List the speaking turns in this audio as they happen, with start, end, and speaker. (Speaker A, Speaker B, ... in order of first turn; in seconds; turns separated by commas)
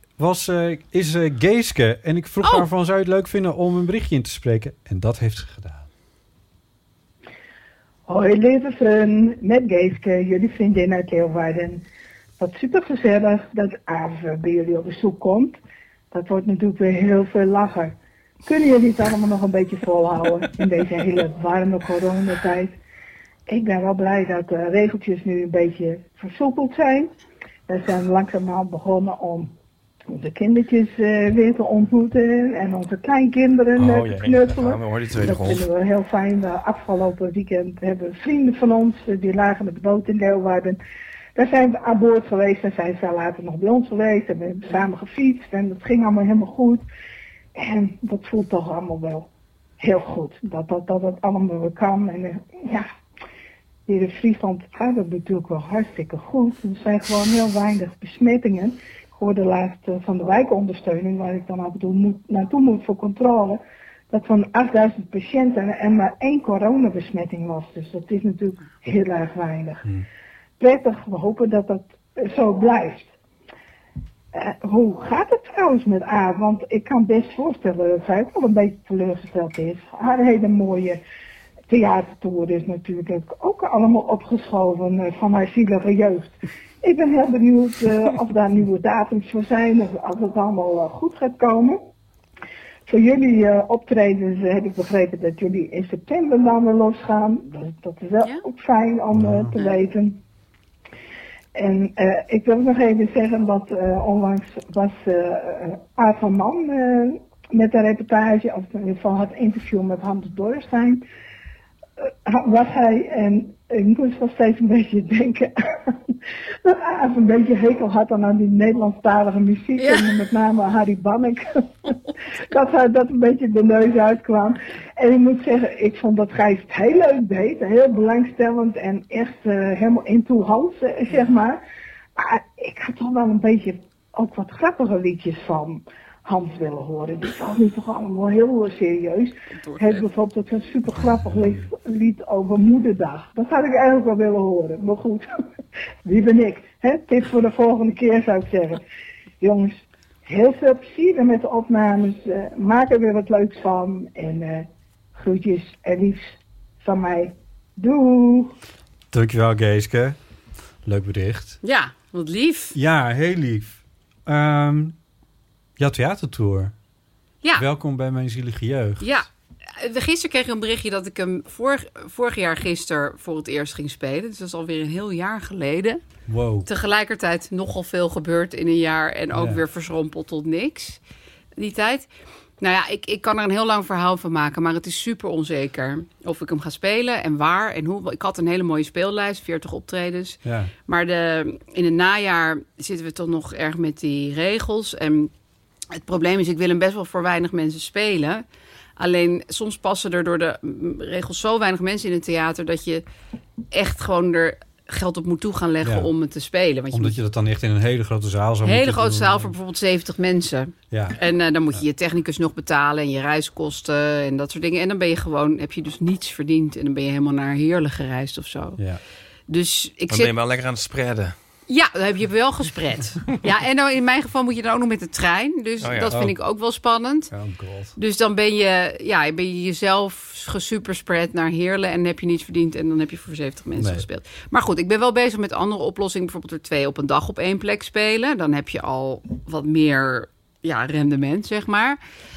Speaker A: 0.2-5.9, Speaker B: 8.1-11.8, Speaker B: 12.4-15.6, Speaker B: 16.1-22.8, Speaker B: 23.5-27.1, Speaker B: 27.7-29.5, Speaker B: 30.1-40.8, Speaker C: 33.8-35.6, Speaker B: 41.3-46.8, Speaker B: 47.5-52.9, Speaker B: 53.9-69.9, Speaker B: 70.6-73.1, Speaker B: 74.3-81.0, Speaker B: 81.7-91.9, Speaker B: 92.9-100.2, Speaker A: 99.1-99.5, Speaker B: 101.5-111.0, Speaker B: 112.2-121.9, Speaker D: 119.8-120.1, Speaker B: 122.5-131.6, Speaker B: 132.2-145.3, Speaker D: 139.5-140.1, Speaker B: 146.0-148.8, Speaker B: 149.4-158.6, Speaker A: 159.1-160.2, Speaker A: 160.8-161.6, Speaker D: 161.6-162.8, Speaker A: 162.7-164.9, Speaker A: 165.8-166.7, Speaker A: 167.6-169.2, Speaker D: 169.0-176.0, Speaker A: 176.3-176.7, Speaker D: 176.7-181.0, Speaker A: 179.3-179.6, Speaker D: 181.6-182.1, Speaker D: 182.6-195.3, Speaker A: 190.4-190.7, Speaker D: 195.9-198.4, Speaker D: 199.0-203.0, Speaker D: 203.7-207.2, Speaker A: 205.8-206.1, Speaker A: 206.9-209.5, Speaker D: 208.6-218.8, Speaker A: 210.9-211.2, Speaker D: 219.5-220.3, Speaker C: 220.1-221.3, Speaker D: 221.7-227.3, Speaker C: 225.8-226.1, Speaker A: 226.1-226.3, Speaker A: 227.3-227.9, Speaker D: 227.9-242.0, Speaker A: 233.8-234.0